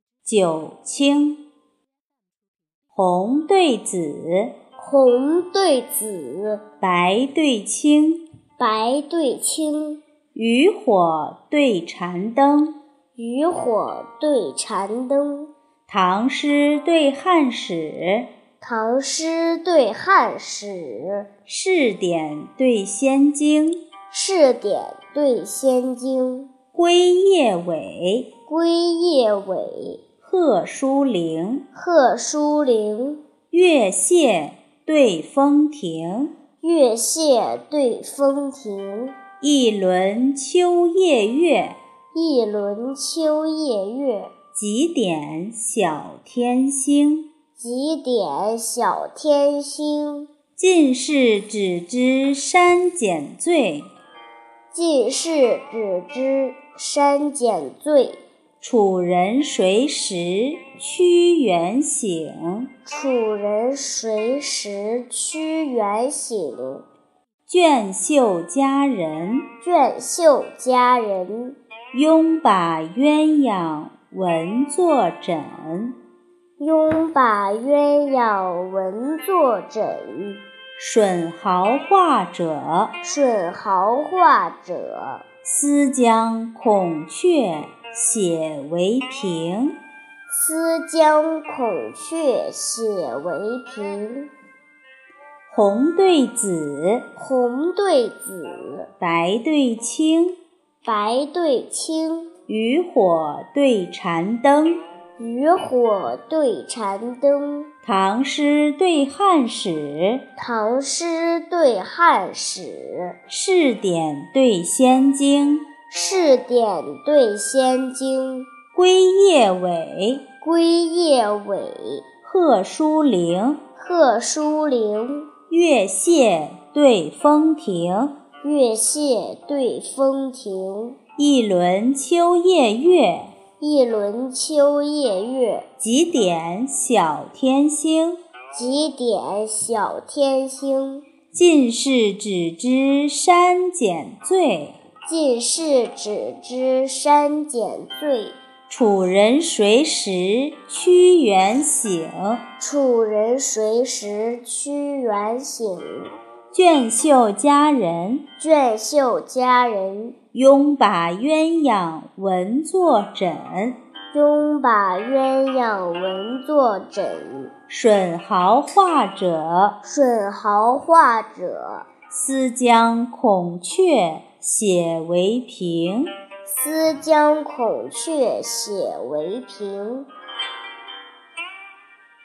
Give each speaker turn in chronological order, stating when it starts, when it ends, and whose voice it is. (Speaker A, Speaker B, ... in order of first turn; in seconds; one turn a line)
Speaker A: 0.2-1.4
Speaker A: 2.9-4.5
Speaker B: 4.8-6.6
Speaker A: 6.8-8.2
Speaker B: 8.6-10.0
Speaker A: 10.3-12.8
Speaker B: 13.2-15.5
Speaker A: 15.9-18.3
Speaker B: 18.6-21.3
Speaker A: 21.5-23.8
Speaker B: 24.1-26.5
Speaker A: 26.7-28.3
Speaker B: 28.5-30.0
Speaker A: 30.2-31.6
Speaker B: 31.7-33.2
Speaker A: 33.5-36.3
Speaker B: 36.6-39.2
Speaker A: 39.4-41.8
Speaker B: 42.1-44.3
Speaker A: 44.5-47.3
Speaker B: 47.6-50.3
Speaker A: 50.6-53.9
Speaker B: 54.7-58.2
Speaker A: 58.6-62.7
Speaker B: 62.9-66.8
Speaker A: 67.5-69.5
Speaker B: 69.6-71.6
Speaker A: 71.9-76.0
Speaker B: 76.6-80.4
Speaker A: 80.8-82.9
Speaker B: 83.0-85.2
Speaker A: 85.4-89.8
Speaker B: 90.3-94.3
Speaker A: 95.5-97.0
Speaker B: 97.2-98.9
Speaker A: 99.0-100.4
Speaker B: 100.8-102.3
Speaker A: 102.5-104.8
Speaker B: 105.2-107.7
Speaker A: 107.8-110.2
Speaker B: 110.4-113.2
Speaker A: 113.3-115.7
Speaker B: 115.9-118.5
Speaker A: 118.7-120.2
Speaker B: 120.4-122.0
Speaker A: 122.2-123.6
Speaker B: 123.8-125.3
Speaker A: 125.5-128.1
Speaker B: 128.4-131.0
Speaker A: 131.2-133.3
Speaker B: 133.6-135.7
Speaker A: 135.8-138.2
Speaker B: 138.5-141.0
Speaker A: 141.3-144.8
Speaker B: 145.0-148.4
Speaker A: 148.7-152.4
Speaker B: 152.6-156.1
Speaker A: 156.5-158.2
Speaker B: 158.4-160.2
Speaker A: 160.3-163.8
Speaker B: 164.1-167.5
Speaker A: 167.7-169.8
Speaker B: 169.8-171.9
Speaker A: 172.1-176.1
Speaker B: 176.4-180.1